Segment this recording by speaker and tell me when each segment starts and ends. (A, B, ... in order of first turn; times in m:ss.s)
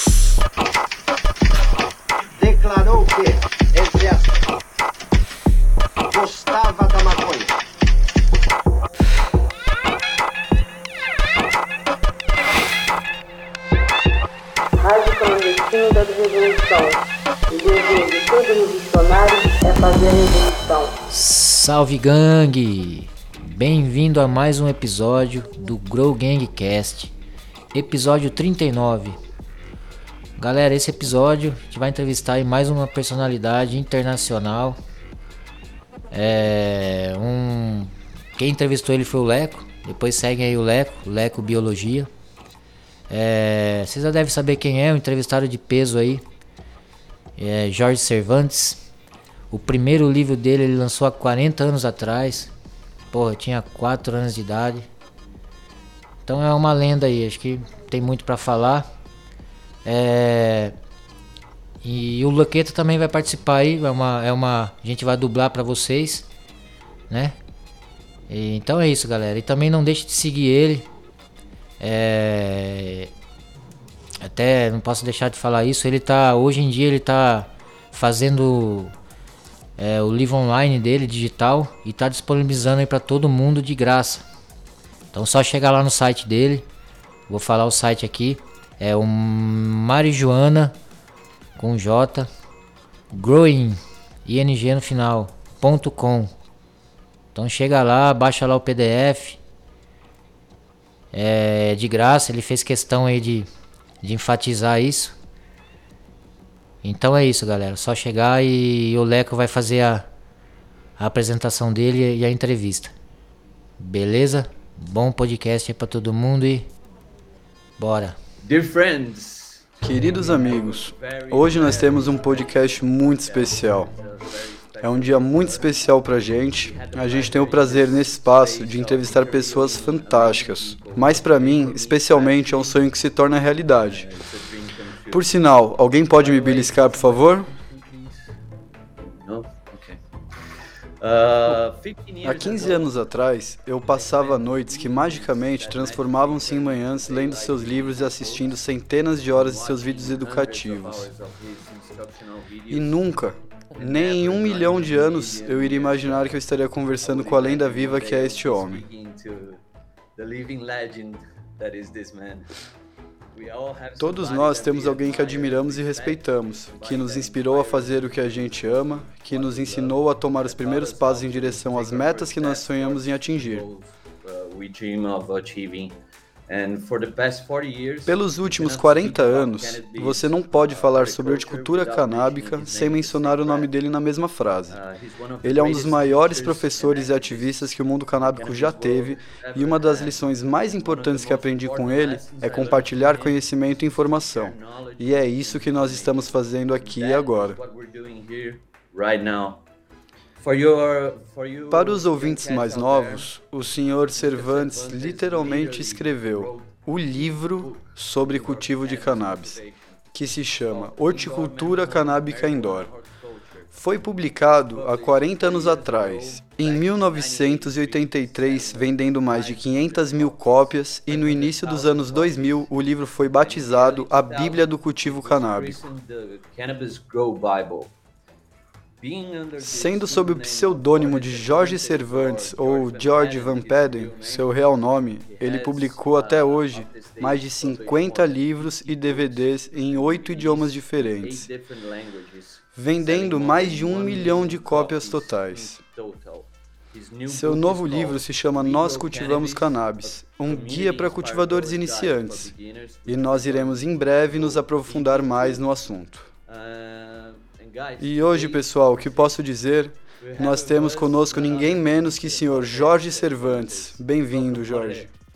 0:02.4-0:04.4 A
0:06.1-0:07.6 A
0:14.8-0:20.9 B
0:21.1-0:27.1 C
0:27.7-0:29.2 C
0:30.4-0:34.8 C
0:36.1-0:42.1 C
0:43.1-0:46.2 C
0:47.4-0:48.8 C
0:49.5-0:52.5 C
0:53.1-0:54.9 C
0:56.3-0:58.9 C
0:59.8-1:00.8 C
1:01.8-1:06.3 C
1:07.1-1:07.4 C
1:08.3-1:10.9 C
1:11.8-1:13.1 C
1:14.2-1:18.9 C
1:19.8-1:24.2 C
1:25.1-1:26.6 C
1:27.3-1:30.7 C
1:31.6-1:32.3 C
1:33.1-1:36.3 C
1:37.4-1:39.4 C
1:41.1-1:43.5 C
1:44.0-1:45.2 C
1:46.8-1:50.1 C
1:51.0-1:52.9 C
1:53.8-1:56.7 C
1:57.8-1:58.2 C
1:58.4-2:15.4 D
1:59.8-2:03.9 E
2:04.8-2:14.1 E
2:15.1-2:17.5 E
2:16.1-2:18.4 D
2:19.0-2:20.0 D
2:21.0-2:23.1 D
2:22.2-2:31.1 E
2:23.8-2:28.6 D
2:29.3-2:33.2 D
2:32.7-2:38.8 E
2:33.7-2:36.4 D
2:37.0-2:39.6 D
2:40.2-2:42.5 D
2:43.3-2:56.0 D
2:44.0-2:53.7 E
2:56.5-3:03.7 D
2:58.1-3:04.8 E
3:04.7-3:19.6 D
3:05.4-3:17.6 E
3:20.4-3:23.3 D
3:21.7-3:29.6 E
3:24.1-3:33.8 D
3:30.1-3:32.9 E
3:33.7-3:45.8 E
3:34.4-3:47.9 D
3:49.0-3:54.6 D
3:49.6-4:01.5 E
3:55.2-4:15.7 D
4:02.8-4:05.8 E
4:07.3-4:12.5 E
4:13.1-4:16.3 E
4:16.5-4:19.3 D
4:18.0-4:25.1 E
4:20.2-4:25.1 D